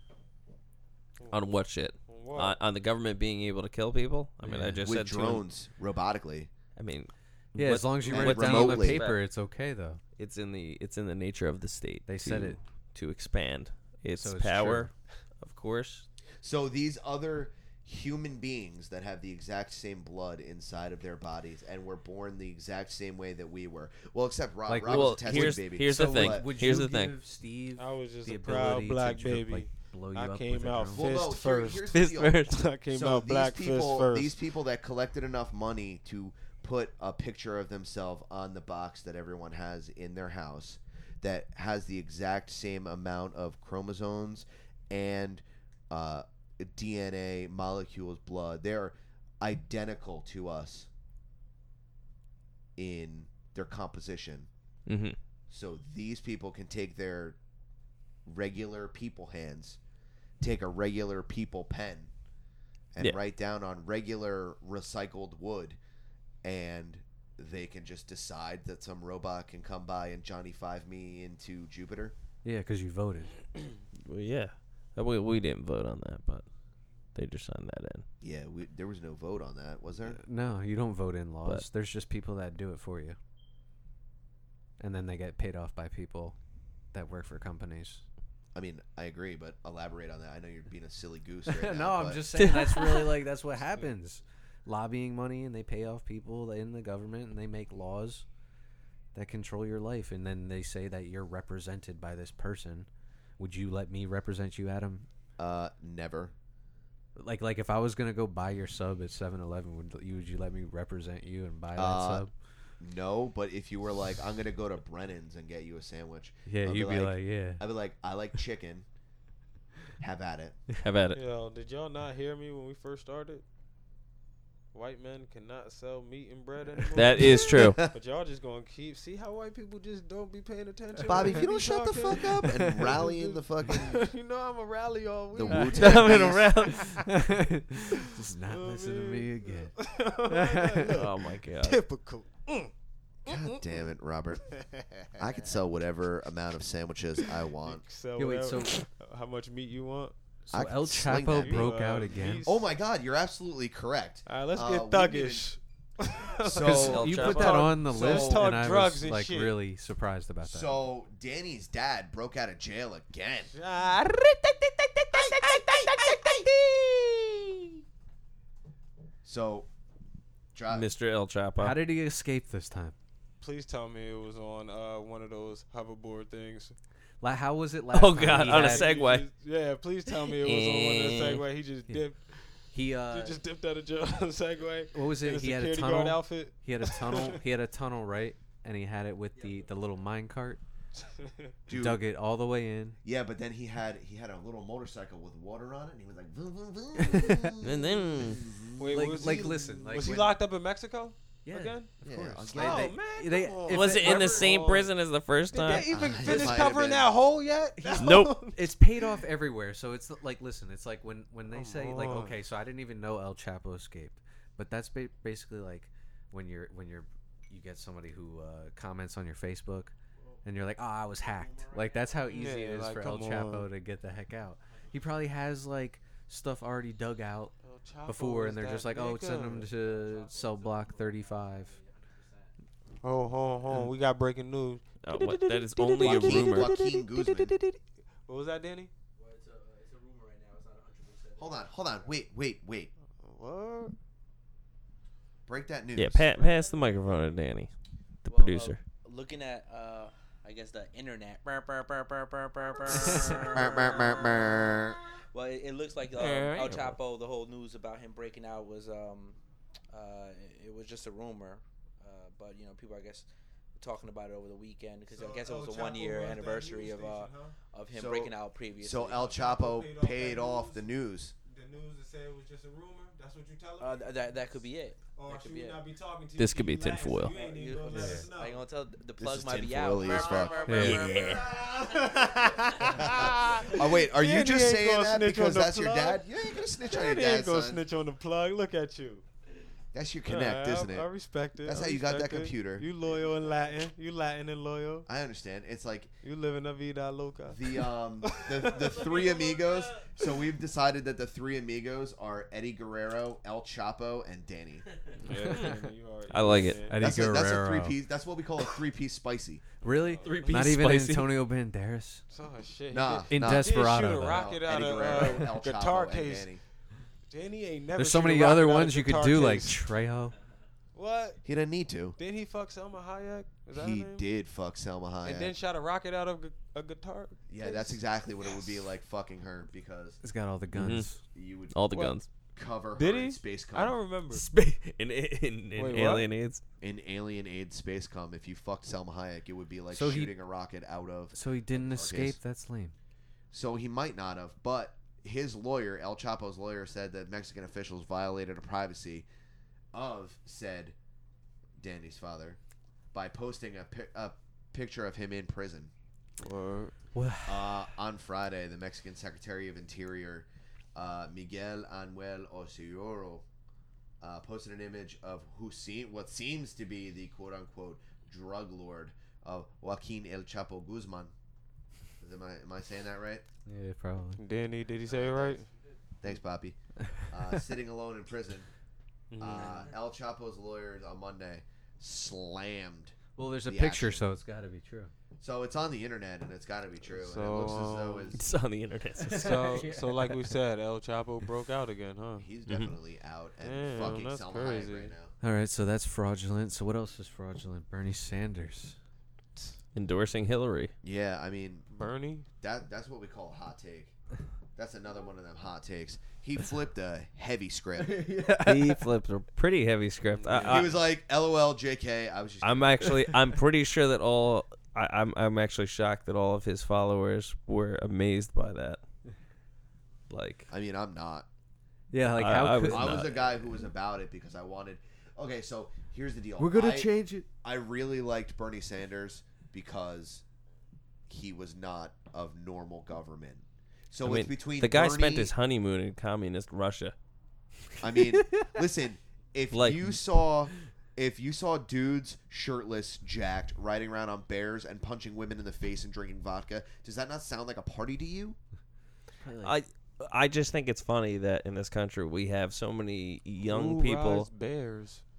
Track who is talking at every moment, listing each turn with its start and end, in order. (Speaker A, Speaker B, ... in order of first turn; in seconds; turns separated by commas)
Speaker A: 1.2-1.4, Speaker B: 1.3-5.4, Speaker A: 2.0-2.5, Speaker C: 4.4-4.8, Speaker D: 4.8-6.5, Speaker B: 6.8-9.2, Speaker C: 7.5-10.0, Speaker D: 8.1-9.0, Speaker B: 10.2-16.1, Speaker C: 12.1-12.6, Speaker C: 14.2-14.9, Speaker D: 16.4-26.5, Speaker C: 24.7-31.1, Speaker B: 24.9-27.1, Speaker A: 27.8-31.9, Speaker D: 30.9-50.9, Speaker B: 31.9-32.6, Speaker A: 32.4-34.4, Speaker D: 52.8-54.5, Speaker B: 54.9-55.2, Speaker D: 55.5-57.4, Speaker D: 58.2-59.8, Speaker D: 60.4-62.1, Speaker D: 62.9-65.8, Speaker D: 66.4-72.1, Speaker C: 72.4-73.3, Speaker B: 74.0-76.5, Speaker B: 77.1-78.0, Speaker D: 78.2-80.2, Speaker C: 80.0-83.2, Speaker C: 84.8-86.4, Speaker C: 86.9-88.0, Speaker D: 88.5-92.4, Speaker C: 91.5-98.2, Speaker B: 92.4-93.1, Speaker C: 99.1-102.9, Speaker C: 103.4-105.1, Speaker D: 105.4-106.3, Speaker C: 107.2-112.3, Speaker D: 111.7-112.2, Speaker D: 112.8-118.8, Speaker C: 116.5-117.6, Speaker D: 120.0-120.6, Speaker B: 120.8-121.2, Speaker A: 121.1-123.4, Speaker A: 124.7-136.9, Speaker B: 126.9-127.8, Speaker D: 127.5-127.9, Speaker D: 131.0-134.1, Speaker C: 132.4-132.9, Speaker D: 135.3-136.7, Speaker B: 135.5-137.0, Speaker C: 136.9-141.0, Speaker A: 138.4-142.7, Speaker B: 140.9-141.8, Speaker A: 143.2-143.8, Speaker D: 143.2-144.5, Speaker A: 144.6-145.1, Speaker D: 145.2-147.8, Speaker A: 147.6-150.1, Speaker C: 148.2-148.8, Speaker C: 150.5-152.4, Speaker D: 150.5-151.8, Speaker A: 151.1-152.7, Speaker D: 152.4-155.5, Speaker A: 154.2-159.6, Speaker D: 156.4-157.2, Speaker B: 156.6-157.8, Speaker C: 156.8-160.7, Speaker D: 157.8-158.7, Speaker D: 160.4-163.5, Speaker A: 163.5-166.4, Speaker D: 165.1-166.5, Speaker D: 169.2-169.7, Speaker D: 170.5-170.9, Speaker B: 170.7-171.8, Speaker C: 171.6-172.9, Speaker A: 173.4-176.7, Speaker C: 177.2-178.9, Speaker B: 177.9-179.3, Speaker A: 178.2-182.5, Speaker B: 180.3-181.4, Speaker C: 182.7-183.4, Speaker A: 183.1-187.4, Speaker C: 184.9-190.6, Speaker E: 189.3-190.0, Speaker A: 190.9-191.6, Speaker D: 191.7-192.0, Speaker C: 191.7-193.0, Speaker D: 193.0-199.5, Speaker C: 197.0-197.5, Speaker B: 197.6-198.5, Speaker A: 198.8-201.9, Speaker C: 198.9-200.4, Speaker C: 201.4-204.6, Speaker D: 202.0-202.9, Speaker A: 202.5-204.9, Speaker B: 203.7-206.4, Speaker A: 205.5-209.1, Speaker D: 205.7-207.1, Speaker C: 207.8-219.9, Speaker B: 208.0-208.5, Speaker A: 211.5-212.4, Speaker C: 220.4-227.5, Speaker E: 221.1-222.6, Speaker A: 222.3-223.7, Speaker E: 224.7-225.0, Speaker A: 227.6-229.7, Speaker C: 228.0-231.8, Speaker E: 229.6-232.5, Speaker A: 233.0-238.9, Speaker B: 235.0-236.8, Speaker D: 236.0-237.6, Speaker E: 239.1-242.1, Speaker D: 241.4-242.9, Speaker A: 243.2-243.9, Speaker D: 245.5-246.3, Speaker B: 245.9-247.7, Speaker E: 246.3-247.4, Speaker B: 248.2-248.8, Speaker E: 248.2-259.4, Speaker D: 253.4-255.0, Speaker B: 256.1-257.0, Speaker E: 259.9-269.4, Speaker A: 265.1-267.6, Speaker D: 267.9-271.3, Speaker A: 269.2-270.9, Speaker A: 271.4-274.6, Speaker E: 273.8-275.9, Speaker A: 275.1-278.7, Speaker B: 276.4-277.3, Speaker E: 277.2-281.6, Speaker C: 277.9-278.3, Speaker D: 279.2-280.7, Speaker A: 280.0-286.3, Speaker C: 280.7-281.1, Speaker B: 280.7-281.4, Speaker E: 282.8-283.7, Speaker D: 283.0-287.8, Speaker A: 286.8-289.2, Speaker D: 289.9-291.1, Speaker A: 290.3-295.1, Speaker D: 291.6-292.9, Speaker D: 295.1-296.1, Speaker A: 296.2-299.1, Speaker D: 297.5-304.9, Speaker E: 298.8-300.1, Speaker A: 305.2-307.1, Speaker C: 305.3-305.7, Speaker B: 306.3-306.9, Speaker C: 306.9-308.0, Speaker D: 307.0-309.6, Speaker C: 309.8-312.2, Speaker E: 309.9-310.1, Speaker B: 310.2-311.4, Speaker A: 310.4-310.7, Speaker A: 312.3-316.5, Speaker D: 312.9-316.6, Speaker C: 313.3-314.5, Speaker A: 317.3-319.9, Speaker C: 318.0-320.4, Speaker A: 320.9-321.4, Speaker D: 321.4-322.2, Speaker A: 322.2-324.2, Speaker D: 323.7-325.5, Speaker A: 325.2-328.0, Speaker D: 327.5-330.2, Speaker C: 330.2-331.2, Speaker B: 330.7-331.1, Speaker D: 331.3-334.0, Speaker B: 331.7-332.3, Speaker A: 332.9-334.4, Speaker B: 334.3-336.6, Speaker A: 335.8-336.3, Speaker D: 336.8-342.4, Speaker C: 339.9-340.3, Speaker C: 341.3-342.9, Speaker D: 343.5-349.3, Speaker D: 349.9-350.9, Speaker D: 351.8-352.6, Speaker D: 353.1-355.9, Speaker A: 356.4-356.9, Speaker C: 357.1-357.8, Speaker D: 357.4-363.4, Speaker D: 364.2-371.3, Speaker D: 372.2-373.4, Speaker C: 373.6-374.4, Speaker A: 374.4-375.7, Speaker D: 375.1-375.6, Speaker D: 376.2-378.7, Speaker C: 377.0-377.3, Speaker A: 379.3-379.9, Speaker D: 379.4-384.2, Speaker C: 383.4-385.1, Speaker D: 385.4-388.4, Speaker A: 387.1-388.4, Speaker B: 388.3-389.8, Speaker C: 389.2-390.3, Speaker A: 389.3-392.4, Speaker D: 392.4-395.3, Speaker A: 393.6-395.1, Speaker C: 395.4-399.0, Speaker B: 399.9-400.9, Speaker D: 401.0-401.9, Speaker A: 401.9-402.5, Speaker D: 402.6-404.1, Speaker D: 404.8-408.4, Speaker C: 408.0-409.0, Speaker B: 408.6-411.0, Speaker A: 410.4-410.8, Speaker D: 410.6-413.2, Speaker B: 412.6-419.0, Speaker B: 420.3-420.7, Speaker D: 420.7-421.5, Speaker C: 422.1-423.2, Speaker B: 422.4-423.4, Speaker D: 422.9-430.4, Speaker C: 426.6-427.4, Speaker D: 431.3-435.5, Speaker B: 434.2-437.1, Speaker D: 438.0-448.6, Speaker B: 439.7-440.2, Speaker C: 449.4-449.7, Speaker B: 449.6-454.5, Speaker A: 453.6-455.2